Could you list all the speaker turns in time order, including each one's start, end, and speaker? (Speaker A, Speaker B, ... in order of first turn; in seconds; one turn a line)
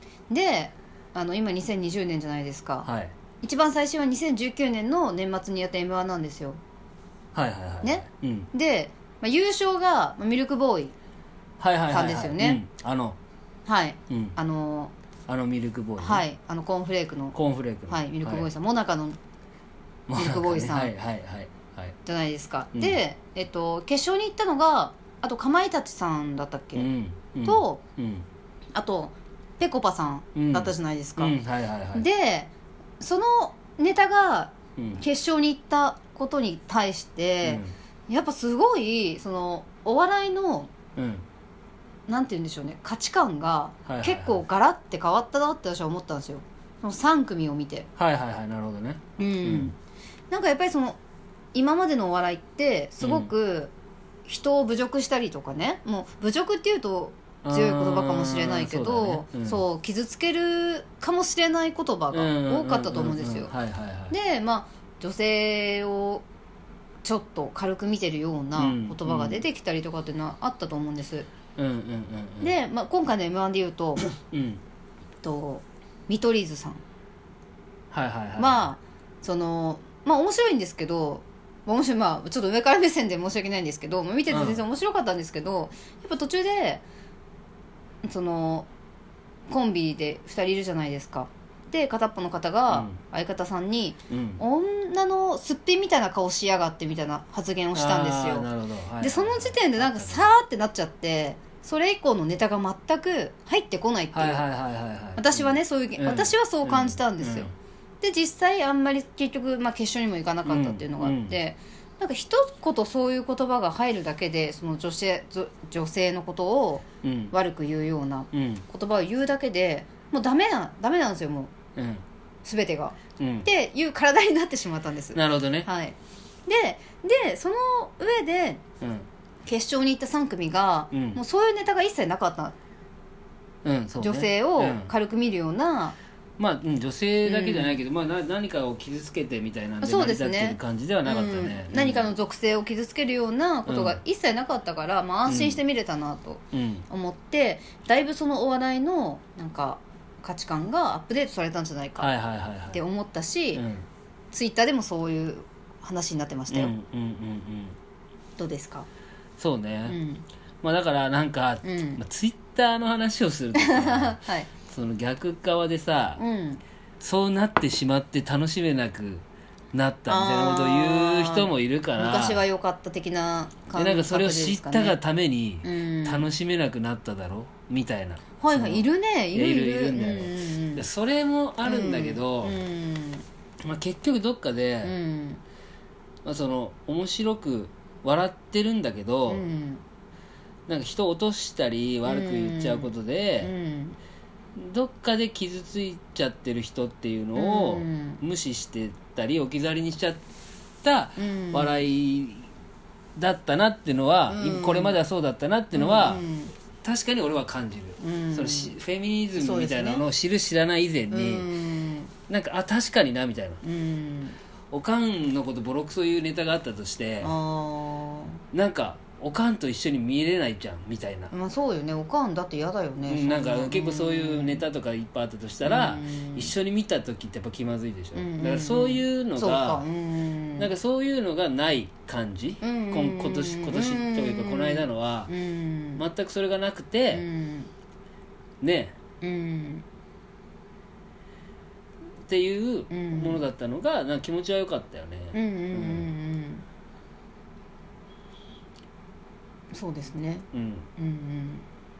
Speaker A: 0.3-2.9
Speaker B: 2.8-3.1
Speaker A: 3.4-6.6
Speaker B: 7.3-8.5
Speaker A: 7.8-10.9
Speaker B: 11.6-13.2
Speaker A: 11.9-12.6
Speaker A: 13.7-14.9
Speaker B: 14.1-14.3
Speaker B: 15.3-16.2
Speaker A: 16.0-17.4
Speaker B: 17.3-18.5
Speaker A: 17.9-19.2
Speaker B: 20.1-21.9
Speaker A: 20.1-20.9
Speaker A: 22.0-26.9
Speaker B: 26.7-28.2
Speaker A: 27.4-27.8
Speaker A: 28.7-31.3
Speaker B: 30.3-32.1
Speaker A: 31.9-40.7
Speaker B: 34.8-35.0
Speaker B: 37.4-37.7
Speaker B: 41.0-41.2
Speaker A: 42.1-47.9
Speaker B: 43.9-44.4
Speaker B: 48.0-49.7
Speaker A: 49.2-49.7
Speaker A: 50.3-51.0
Speaker A: 51.5-53.7
Speaker B: 53.0-53.3
Speaker A: 54.2-63.5
Speaker B: 57.4-59.6
Speaker B: 62.1-64.1
Speaker A: 64.1-66.2
Speaker A: 67.0-71.3
Speaker B: 68.5-69.4
Speaker B: 71.5-72.5
Speaker A: 72.4-74.1
Speaker B: 74.3-74.6
Speaker A: 75.2-76.8
Speaker B: 77.9-78.6
Speaker A: 78.4-86.8
Speaker B: 84.3-84.6
Speaker A: 88.0-88.7
Speaker A: 89.5-98.5
Speaker B: 92.7-93.0
Speaker B: 94.1-94.4
Speaker B: 97.7-100.3
Speaker A: 99.0-104.4
Speaker B: 104.1-107.5
Speaker A: 105.2-121.5
Speaker B: 110.4-111.3
Speaker B: 117.0-117.3
Speaker B: 118.3-118.6
Speaker B: 121.8-122.0
Speaker A: 122.4-128.6
Speaker B: 123.2-123.5
Speaker B: 125.1-125.7
Speaker B: 128.8-129.1
Speaker A: 129.4-132.6
Speaker B: 130.9-131.2
Speaker B: 133.6-134.9
Speaker A: 134.0-135.9
Speaker B: 136.4-142.1
Speaker A: 137.2-137.8
Speaker A: 139.8-152.1
Speaker B: 143.7-144.0
Speaker B: 145.3-145.6
Speaker B: 146.5-146.8
Speaker B: 152.0-152.8
Speaker A: 152.7-153.6
Speaker B: 153.5-153.8
Speaker A: 154.3-156.7
Speaker B: 156.5-157.8
Speaker A: 158.4-158.9
Speaker B: 159.4-160.0
Speaker A: 159.8-160.2
Speaker B: 160.6-166.2
Speaker A: 161.6-162.0
Speaker A: 163.6-164.5
Speaker A: 166.2-166.6
Speaker B: 167.0-172.4
Speaker A: 170.1-175.0
Speaker B: 173.7-182.7
Speaker A: 175.6-176.3
Speaker A: 178.4-180.8
Speaker A: 181.6-183.2
Speaker B: 183.6-184.9
Speaker A: 184.8-185.4
Speaker B: 186.2-189.5
Speaker A: 189.3-189.8
Speaker B: 190.7-193.5
Speaker A: 192.0-194.0
Speaker B: 194.5-200.2
Speaker A: 197.3-198.2
Speaker B: 200.8-202.5
Speaker A: 201.2-201.8
Speaker B: 203.2-206.2
Speaker A: 204.3-205.0
Speaker A: 205.7-206.5
Speaker B: 206.8-211.5
Speaker A: 208.0-208.8
Speaker A: 209.3-210.0
Speaker A: 211.1-212.1
Speaker B: 212.3-213.6
Speaker A: 213.6-214.4
Speaker B: 214.7-217.3
Speaker A: 217.2-218.4
Speaker B: 218.5-221.3
Speaker A: 221.3-224.6
Speaker B: 223.1-229.8
Speaker A: 225.6-226.5
Speaker A: 228.1-230.7
Speaker B: 230.6-235.3
Speaker A: 232.6-236.0
Speaker B: 236.0-237.2
Speaker A: 237.1-237.7
Speaker B: 238.6-238.9
Speaker A: 239.2-239.8
Speaker B: 242.2-246.1
Speaker A: 242.9-243.4
Speaker A: 245.3-246.6
Speaker A: 249.7-251.7
Speaker B: 250.5-250.9